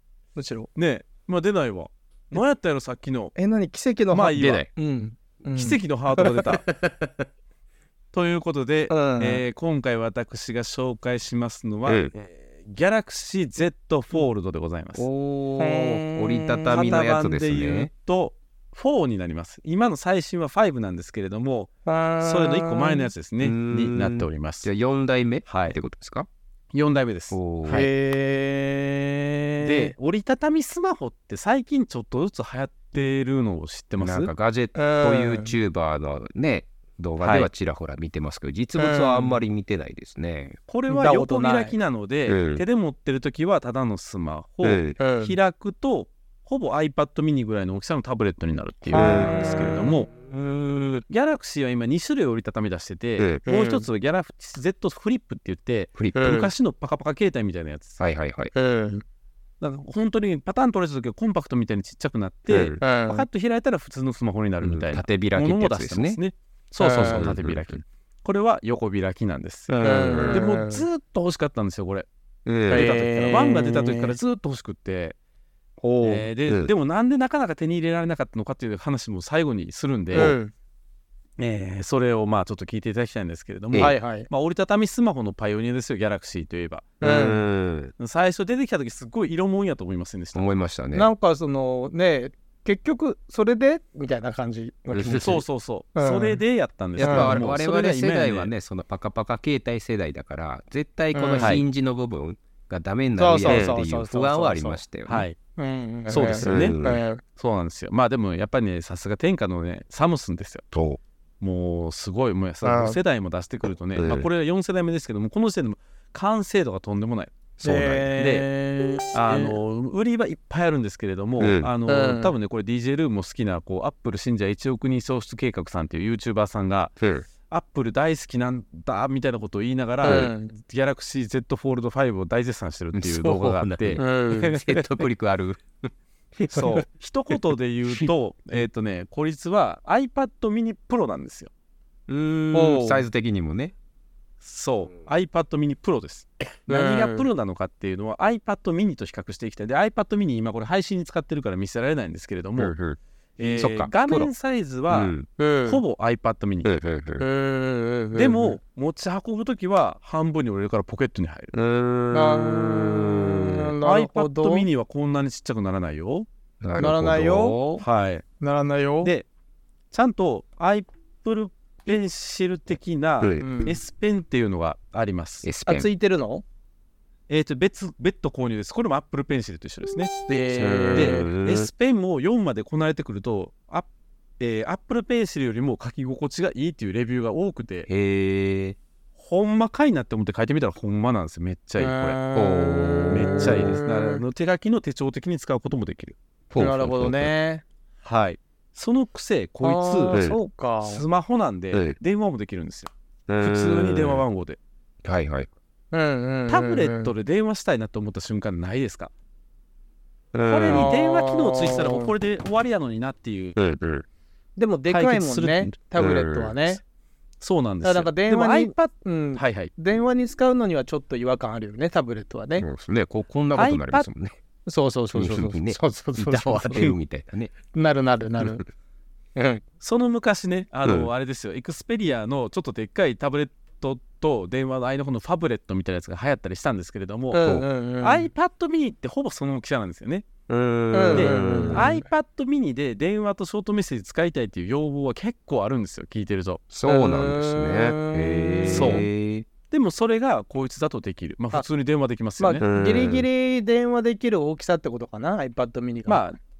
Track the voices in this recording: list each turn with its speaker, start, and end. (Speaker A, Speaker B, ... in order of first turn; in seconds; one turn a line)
Speaker A: 0.3-0.7
Speaker B: 0.8-3.3
Speaker A: 3.4-6.3
Speaker B: 4.1-4.7
Speaker B: 5.5-6.6
Speaker C: 6.6-7.2
Speaker B: 8.1-15.1
Speaker A: 8.9-9.4
Speaker C: 11.8-12.1
Speaker C: 15.0-17.9
Speaker A: 15.6-17.0
Speaker B: 16.7-24.7
Speaker A: 21.8-23.1
Speaker C: 23.4-26.3
Speaker B: 25.4-25.8
Speaker B: 26.7-27.9
Speaker C: 27.3-27.9
Speaker A: 27.7-29.9
Speaker B: 29.6-34.3
Speaker C: 34.0-40.6
Speaker A: 34.7-35.5
Speaker B: 37.2-37.5
Speaker A: 38.8-39.4
Speaker B: 40.7-50.1
Speaker A: 40.9-41.7
Speaker C: 42.3-42.6
Speaker C: 44.6-45.0
Speaker A: 45.0-45.4
Speaker A: 48.9-49.9
Speaker C: 48.9-49.9
Speaker B: 51.1-58.0
Speaker C: 53.2-53.4
Speaker A: 53.4-53.9
Speaker C: 56.0-56.3
Speaker A: 56.1-56.5
Speaker C: 58.0-58.5
Speaker A: 58.5-59.0
Speaker B: 59.6-72.1
Speaker C: 62.5-62.8
Speaker A: 62.8-63.2
Speaker C: 64.6-66.2
Speaker A: 66.8-67.2
Speaker C: 67.0-67.8
Speaker C: 69.7-70.5
Speaker A: 69.8-70.8
Speaker C: 72.5-72.9
Speaker B: 72.7-75.2
Speaker A: 72.7-74.2
Speaker C: 75.8-76.7
Speaker B: 76.0-80.3
Speaker A: 80.1-80.5
Speaker B: 81.4-86.9
Speaker A: 83.8-84.3
Speaker A: 87.0-87.4
Speaker C: 87.0-87.9
Speaker B: 88.0-90.5
Speaker C: 90.3-91.1
Speaker A: 90.9-95.4
Speaker C: 94.9-95.4
Speaker B: 95.1-98.5
Speaker A: 95.9-96.4
Speaker C: 97.0-105.3
Speaker A: 97.0-97.4
Speaker A: 101.1-101.6
Speaker A: 103.2-104.8
Speaker B: 105.1-105.3
Speaker A: 105.6-107.2
Speaker B: 106.1-106.8
Speaker C: 106.4-107.0
Speaker B: 107.3-110.6
Speaker C: 110.7-111.0
Speaker B: 111.4-118.5
Speaker A: 112.6-113.0
Speaker C: 114.0-114.3
Speaker C: 117.6-118.0
Speaker A: 117.6-119.5
Speaker B: 119.1-126.9
Speaker C: 121.4-121.7
Speaker A: 121.8-122.3
Speaker C: 127.0-127.2
Speaker B: 127.5-135.0
Speaker A: 130.0-130.5
Speaker C: 130.0-130.3
Speaker C: 132.9-136.8
Speaker A: 134.0-134.5
Speaker B: 136.5-141.5
Speaker C: 142.1-143.7
Speaker A: 142.5-143.0
Speaker B: 144.4-152.7
Speaker A: 146.7-147.2
Speaker C: 152.6-154.3
Speaker B: 153.4-156.7
Speaker C: 154.9-155.3
Speaker A: 155.4-155.8
Speaker C: 156.6-157.2
Speaker A: 157.2-158.6
Speaker B: 158.1-161.5
Speaker C: 161.5-163.7
Speaker A: 162.1-164.7
Speaker B: 163.8-166.3
Speaker C: 166.6-167.8
Speaker A: 166.8-167.6
Speaker B: 167.8-168.2
Speaker A: 168.4-169.1
Speaker B: 169.9-175.5
Speaker A: 173.4-173.8
Speaker C: 175.4-175.9
Speaker A: 175.7-176.4
Speaker B: 177.3-180.1
Speaker A: 180.3-181.3
Speaker C: 180.5-181.7
Speaker B: 180.9-183.9
Speaker B: 184.4-187.9
Speaker C: 187.9-188.8
Speaker B: 189.2-192.2
Speaker A: 191.8-194.2
Speaker C: 192.3-193.8
Speaker B: 193.1-196.1
Speaker C: 196.5-197.3
Speaker A: 196.6-197.6
Speaker B: 198.0-200.2
Speaker A: 199.6-201.0
Speaker C: 200.1-200.4
Speaker B: 200.8-204.6
Speaker C: 203.3-204.2
Speaker C: 205.0-205.5
Speaker A: 205.9-207.1
Speaker B: 206.5-209.1
Speaker C: 210.3-210.9
Speaker B: 210.5-213.6
Speaker A: 210.7-212.1
Speaker C: 213.6-214.0
Speaker A: 214.6-216.8
Speaker B: 214.9-215.8
Speaker C: 216.0-216.6
Speaker B: 217.4-219.7
Speaker A: 217.8-222.7
Speaker C: 222.6-224.4
Speaker B: 223.5-224.1
Speaker A: 224.7-227.0
Speaker C: 225.1-227.5
Speaker A: 227.7-228.6
Speaker A: 229.3-229.6
Speaker B: 229.8-240.2
Speaker A: 237.3-238.3
Speaker C: 237.4-237.7
Speaker C: 240.5-241.9
Speaker A: 240.9-242.0
Speaker B: 241.1-246.6
Speaker C: 246.7-249.5
Speaker A: 246.8-249.0
Speaker B: 248.7-249.1
Speaker B: 249.7-252.6
Speaker A: 252.4-256.2
Speaker C: 252.6-253.2
Speaker B: 256.1-256.4